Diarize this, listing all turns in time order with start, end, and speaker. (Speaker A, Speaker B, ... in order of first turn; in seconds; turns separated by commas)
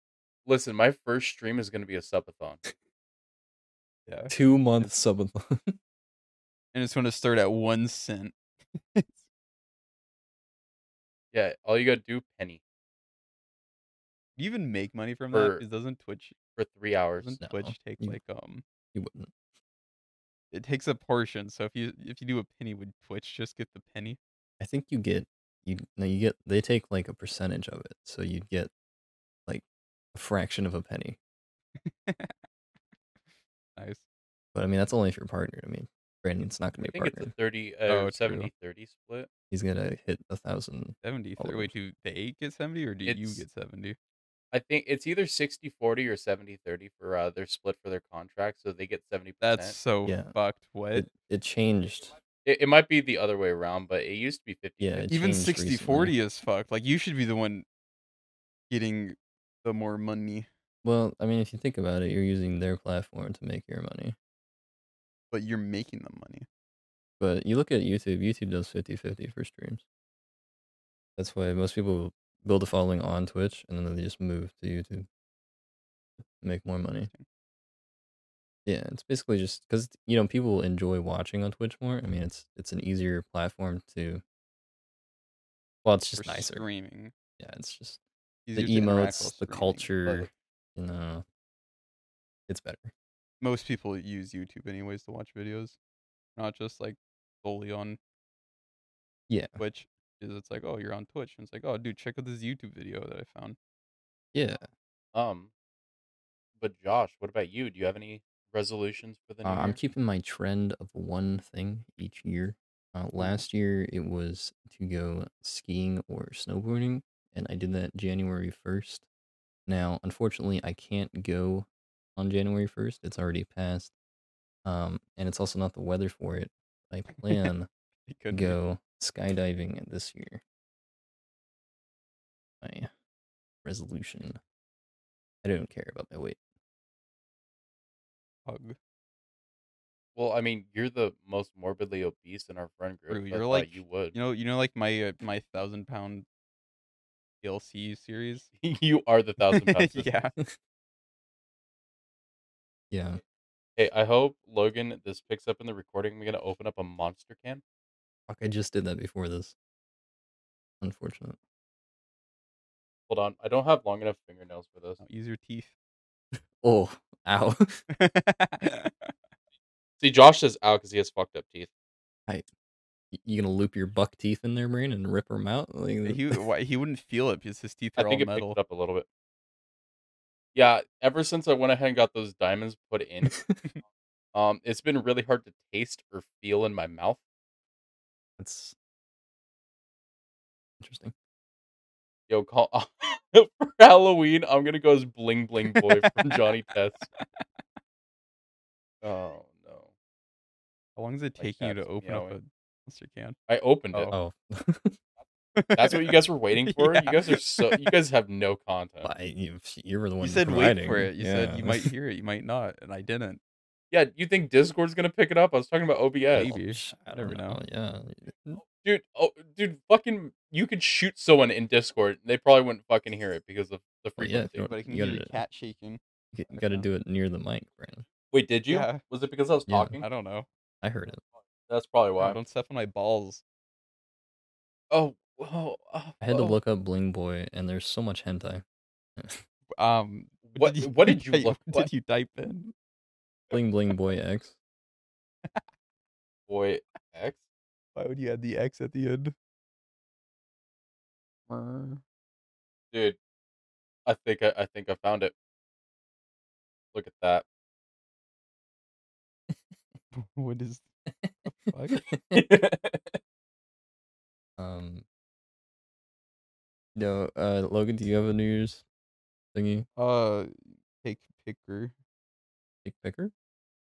Speaker A: 0.5-2.6, Speaker B: 4.1-4.9, Speaker C: 4.3-5.8, Speaker B: 6.7-9.2, Speaker A: 11.3-12.6, Speaker B: 14.4-16.4, Speaker A: 15.3-15.6, Speaker A: 16.6-17.3, Speaker B: 17.2-18.6, Speaker C: 17.4-18.2, Speaker C: 18.9-19.3, Speaker B: 20.5-24.2, Speaker C: 24.6-28.7, Speaker C: 30.1-31.2, Speaker B: 31.8-32.4, Speaker B: 33.8-34.0, Speaker C: 34.5-37.3, Speaker A: 36.8-39.3, Speaker B: 37.9-38.5, Speaker C: 39.5-41.7, Speaker B: 41.0-44.0, Speaker A: 43.0-43.4, Speaker A: 44.5-49.8, Speaker B: 49.4-51.1, Speaker C: 50.0-50.3, Speaker C: 50.9-52.1, Speaker A: 52.4-55.1, Speaker C: 54.8-56.1, Speaker B: 55.1-57.6, Speaker B: 58.7-60.5, Speaker C: 60.8-64.2, Speaker B: 65.3-66.5, Speaker C: 67.2-69.8, Speaker C: 71.2-75.1, Speaker C: 76.4-77.1, Speaker C: 78.7-84.2, Speaker C: 85.8-86.6, Speaker B: 86.2-87.1, Speaker C: 87.4-88.0, Speaker B: 88.5-90.3, Speaker C: 88.5-91.2, Speaker C: 92.5-92.9, Speaker B: 93.4-95.8, Speaker B: 96.3-98.0, Speaker C: 99.3-99.6, Speaker B: 99.6-103.6, Speaker C: 104.3-104.7, Speaker A: 105.1-105.5, Speaker A: 106.6-109.8, Speaker C: 109.4-119.0, Speaker C: 119.7-123.9, Speaker C: 124.6-127.7, Speaker B: 128.1-128.6, Speaker C: 128.3-130.4, Speaker C: 132.6-132.9, Speaker C: 133.6-134.4, Speaker C: 135.4-136.4, Speaker B: 138.4-138.8, Speaker A: 140.2-144.1, Speaker B: 143.1-146.2, Speaker B: 147.4-148.5, Speaker A: 148.6-150.2, Speaker B: 149.5-150.3, Speaker C: 152.9-153.2, Speaker A: 153.8-157.6, Speaker C: 158.3-159.5, Speaker C: 160.8-161.4, Speaker A: 163.1-165.0, Speaker B: 165.0-165.7, Speaker C: 166.4-167.8, Speaker B: 167.9-169.1, Speaker A: 170.0-171.7, Speaker C: 173.1-176.2, Speaker B: 176.1-178.6, Speaker A: 178.0-179.1, Speaker A: 180.5-183.3, Speaker C: 183.2-183.6, Speaker A: 184.3-187.2, Speaker C: 188.4-188.7, Speaker C: 190.8-191.1, Speaker A: 192.3-197.1, Speaker B: 195.7-196.4, Speaker B: 197.2-197.4, Speaker A: 199.0-199.9, Speaker B: 200.9-203.4, Speaker A: 201.4-202.4, Speaker A: 203.5-204.1, Speaker C: 204.1-205.0, Speaker B: 205.6-207.9, Speaker A: 205.8-209.1, Speaker C: 209.0-211.9, Speaker B: 210.2-213.4, Speaker A: 213.9-216.5, Speaker C: 216.3-218.6, Speaker B: 216.3-217.6, Speaker A: 218.8-224.7, Speaker C: 224.2-225.4, Speaker B: 224.7-226.9, Speaker C: 226.3-228.1, Speaker A: 228.3-230.1, Speaker B: 228.7-229.0, Speaker C: 229.7-230.0, Speaker B: 230.0-230.5, Speaker C: 230.8-231.2, Speaker A: 231.7-232.4, Speaker B: 232.2-233.4, Speaker A: 234.9-236.6, Speaker C: 236.2-238.6, Speaker C: 239.2-239.4, Speaker B: 239.7-242.7, Speaker A: 240.4-241.9, Speaker C: 243.5-244.6, Speaker A: 246.5-247.4, Speaker B: 247.9-249.3, Speaker B: 251.5-252.0, Speaker A: 252.9-253.2, Speaker A: 254.1-255.3, Speaker A: 256.9-257.4, Speaker B: 260.1-260.8, Speaker C: 261.2-262.4, Speaker B: 261.4-262.0, Speaker A: 262.3-263.2, Speaker C: 264.6-265.0, Speaker C: 266.9-268.8, Speaker C: 269.5-269.9, Speaker B: 269.9-271.9, Speaker C: 272.8-273.3